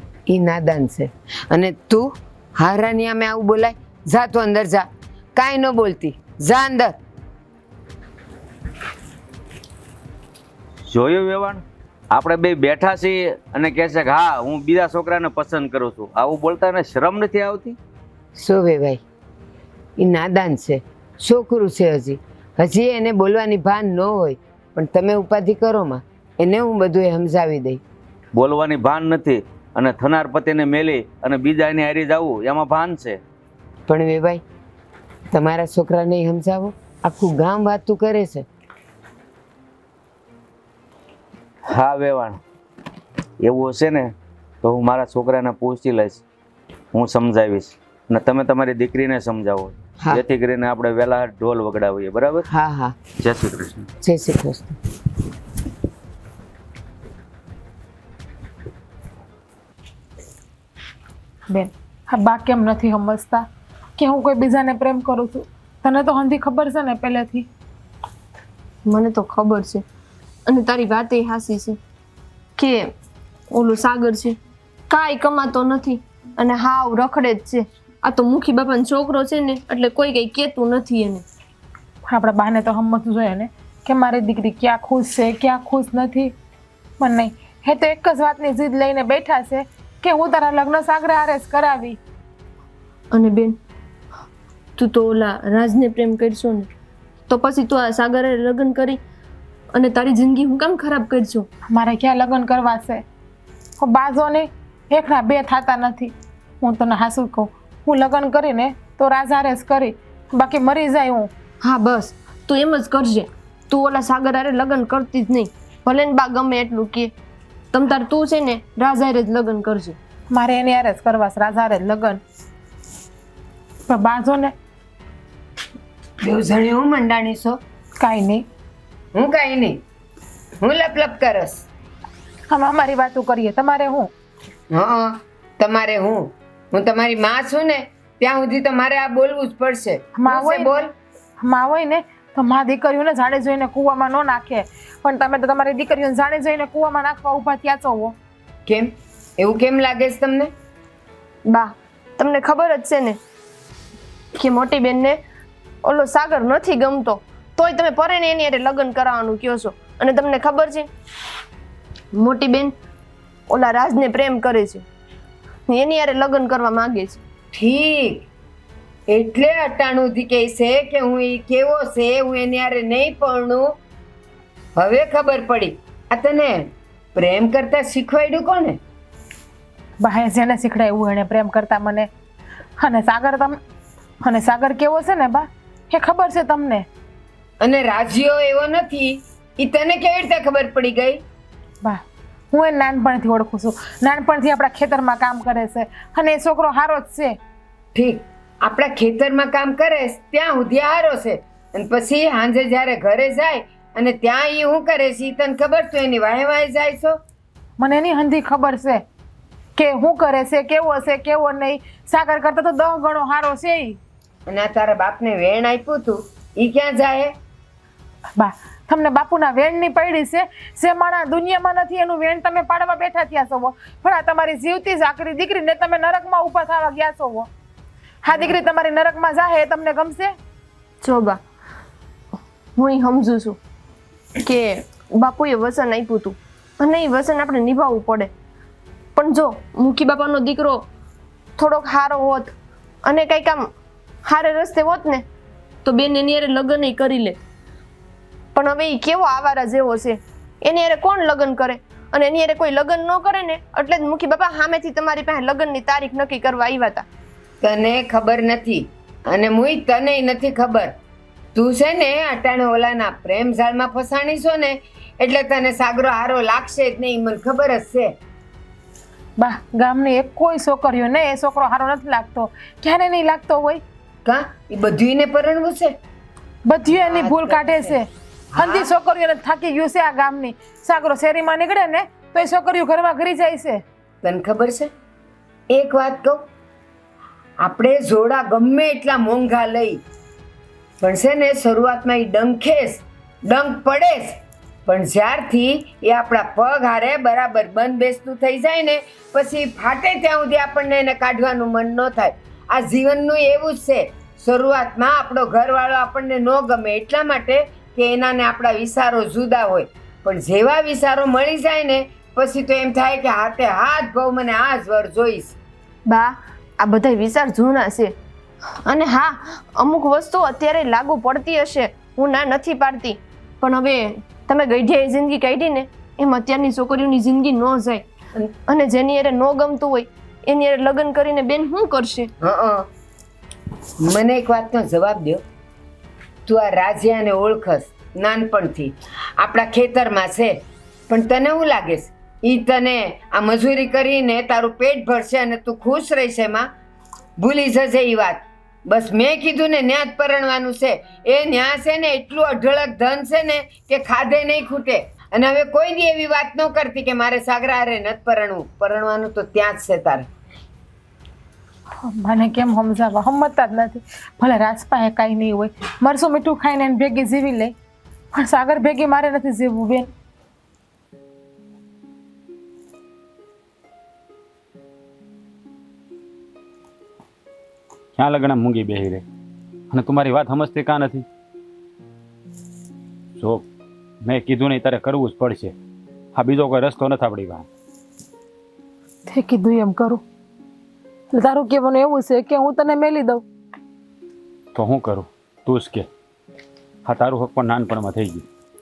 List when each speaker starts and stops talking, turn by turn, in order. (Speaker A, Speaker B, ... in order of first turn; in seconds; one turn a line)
Speaker A: 0.3-4.8
Speaker A: 5.4-6.9
Speaker B: 10.9-17.8
Speaker A: 18.4-19.0
Speaker A: 20.0-27.8
Speaker B: 28.4-33.2
Speaker A: 33.9-34.4
Speaker A: 35.3-38.5
Speaker B: 41.7-42.4
Speaker B: 43.4-46.2
Speaker B: 46.9-52.5
Speaker A: 52.5-53.0
Speaker B: 53.2-53.9
Speaker A: 54.0-54.8
Speaker C: 61.5-63.5
Speaker C: 64.0-67.5
Speaker D: 68.8-69.8
Speaker D: 70.5-71.8
Speaker D: 72.6-72.9
Speaker D: 73.5-74.4
Speaker D: 74.9-81.3
Speaker C: 82.1-86.3
Speaker C: 87.0-92.0
Speaker D: 93.1-93.6
Speaker D: 94.8-96.7
Speaker D: 97.3-99.0
Speaker D: 99.7-101.5
Speaker C: 101.7-103.0
Speaker C: 103.8-111.3
Speaker D: 111.6-117.1
Speaker D: 117.7-120.0
Speaker C: 120.3-122.2
Speaker C: 123.9-124.5
Speaker A: 126.2-127.6
Speaker C: 128.0-128.4
Speaker A: 129.2-129.8
Speaker A: 130.6-131.6
Speaker C: 132.5-134.1
Speaker A: 134.7-140.9
Speaker C: 140.2-140.8
Speaker C: 141.4-148.2
Speaker A: 148.7-150.5
Speaker D: 151.5-153.2
Speaker D: 154.3-155.2
Speaker D: 155.8-160.9
Speaker D: 162.1-162.8
Speaker D: 163.5-164.8
Speaker D: 165.7-167.2
Speaker A: 167.5-168.3
Speaker A: 169.1-173.7
Speaker A: 174.8-176.6
Speaker A: 177.2-178.8
Speaker C: 180.0-182.1
Speaker C: 182.8-183.6
Speaker C: 184.2-186.9
Speaker A: 187.6-191.2
Speaker C: 191.8-197.4
Speaker A: 197.9-207.1
Speaker C: 207.8-209.0
Speaker C: 209.8-214.0
Speaker A: 214.5-217.3
Speaker C: 218.4-227.5
Speaker C: 228.2-230.3
Speaker D: 231.0-231.4
Speaker D: 232.8-233.6
Speaker D: 234.4-238.3
Speaker D: 239.2-240.9
Speaker D: 241.6-242.5
Speaker D: 243.1-243.7
Speaker D: 244.2-245.3
Speaker D: 245.8-247.4
Speaker D: 248.5-257.1
Speaker A: 257.6-260.9
Speaker A: 261.6-268.1
Speaker C: 269.4-273.8
Speaker A: 274.2-275.9
Speaker C: 276.7-278.1
Speaker A: 276.9-278.0
Speaker A: 278.5-278.9
Speaker C: 278.6-283.8
Speaker A: 284.2-284.9
Speaker A: 285.7-286.4
Speaker A: 287.6-290.0
Speaker A: 291.0-294.4
Speaker A: 294.9-315.6
Speaker D: 316.1-318.1
Speaker D: 318.8-328.1
Speaker D: 328.7-332.3
Speaker A: 332.4-332.9
Speaker A: 334.0-335.4
Speaker A: 336.5-340.5
Speaker A: 341.1-346.7
Speaker A: 347.4-360.3
Speaker C: 362.0-367.7
Speaker C: 368.3-370.1
Speaker E: 378.2-379.2
Speaker E: 379.9-381.3
Speaker E: 383.4-383.6
Speaker E: 384.2-385.7
Speaker E: 386.4-387.7
Speaker C: 389.3-390.2
Speaker C: 391.3-393.4
Speaker E: 394.8-396.1
Speaker E: 397.1-398.4